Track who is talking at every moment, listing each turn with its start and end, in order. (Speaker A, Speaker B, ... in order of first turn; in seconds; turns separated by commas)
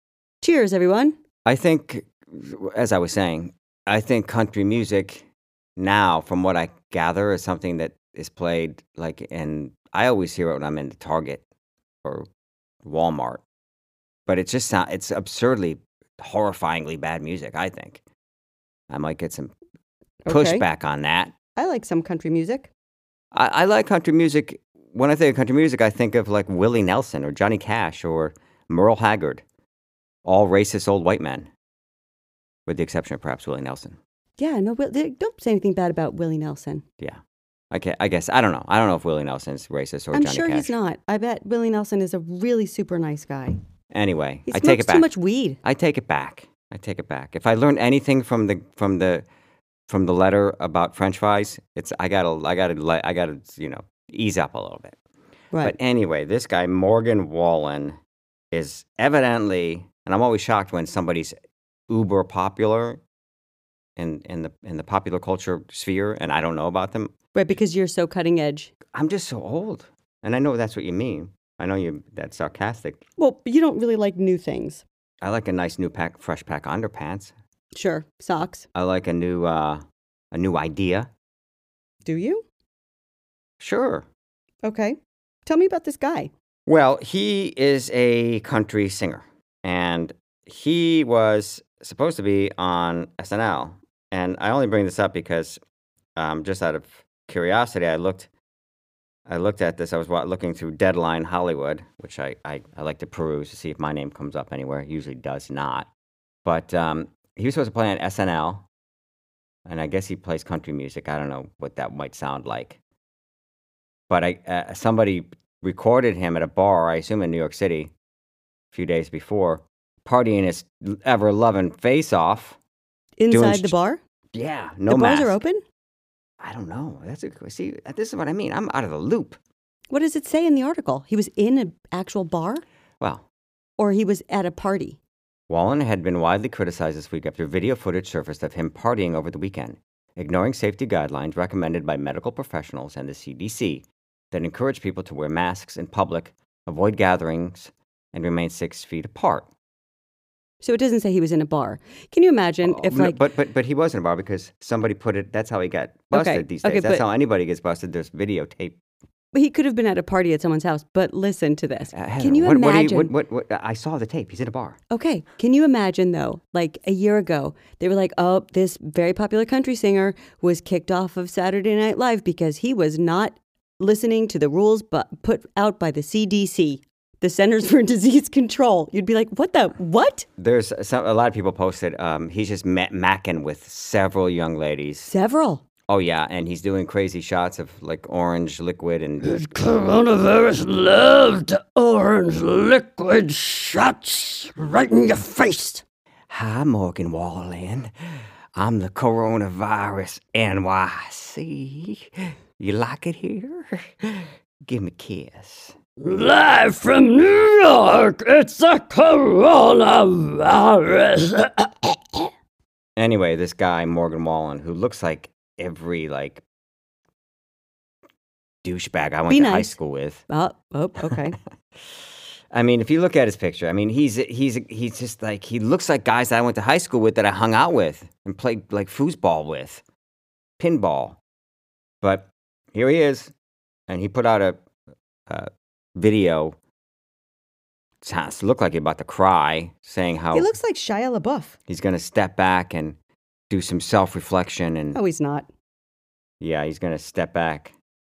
Speaker A: 0.4-1.1, Speaker B: 1.4-11.4, Speaker B: 12.8-13.4, Speaker B: 14.3-18.0, Speaker B: 18.9-19.5, Speaker A: 20.2-20.6, Speaker B: 20.3-21.3, Speaker A: 21.6-22.7, Speaker B: 23.3-29.4, Speaker B: 30.2-31.5, Speaker B: 32.7-34.0, Speaker A: 34.4-36.8, Speaker B: 37.7-40.7, Speaker A: 40.1-43.6, Speaker B: 43.9-45.0, Speaker A: 44.5-45.6, Speaker B: 45.6-49.2, Speaker B: 49.9-55.0, Speaker B: 55.6-58.0, Speaker B: 58.5-61.3, Speaker B: 61.9-63.0, Speaker B: 64.0-67.1, Speaker A: 67.3-68.7, Speaker B: 68.9-73.0, Speaker A: 73.2-74.8, Speaker B: 75.2-77.3, Speaker A: 77.7-78.7, Speaker B: 78.7-79.8, Speaker B: 80.3-81.1, Speaker A: 82.0-82.4, Speaker B: 83.6-84.0, Speaker A: 84.6-86.3, Speaker B: 86.7-95.6, Speaker B: 96.2-98.3, Speaker B: 99.3-105.9, Speaker B: 106.4-108.7, Speaker B: 109.7-112.8, Speaker B: 114.1-117.9, Speaker B: 118.7-122.6, Speaker A: 123.2-124.0, Speaker B: 123.3-123.7, Speaker B: 124.3-125.4, Speaker A: 124.9-125.6, Speaker B: 126.4-129.4, Speaker A: 129.9-132.6, Speaker A: 133.8-135.0, Speaker B: 135.5-149.5, Speaker A: 150.6-153.2, Speaker B: 152.6-158.8, Speaker A: 156.1-157.0, Speaker A: 159.3-163.1, Speaker B: 161.9-164.8, Speaker A: 164.9-180.3, Speaker B: 180.4-185.1, Speaker A: 185.1-185.6, Speaker B: 185.9-189.4, Speaker C: 189.4-195.8, Speaker B: 196.3-197.9, Speaker B: 198.5-205.8, Speaker C: 206.0-211.7, Speaker B: 213.0-216.4, Speaker B: 218.6-220.2, Speaker A: 219.3-221.4, Speaker B: 222.5-229.8, Speaker B: 230.6-231.2, Speaker B: 232.0-233.3, Speaker B: 233.9-234.6, Speaker B: 235.3-236.6, Speaker B: 238.0-240.5, Speaker A: 240.3-241.6, Speaker B: 241.7-242.9, Speaker B: 243.5-245.0, Speaker A: 244.9-245.5, Speaker B: 246.4-247.7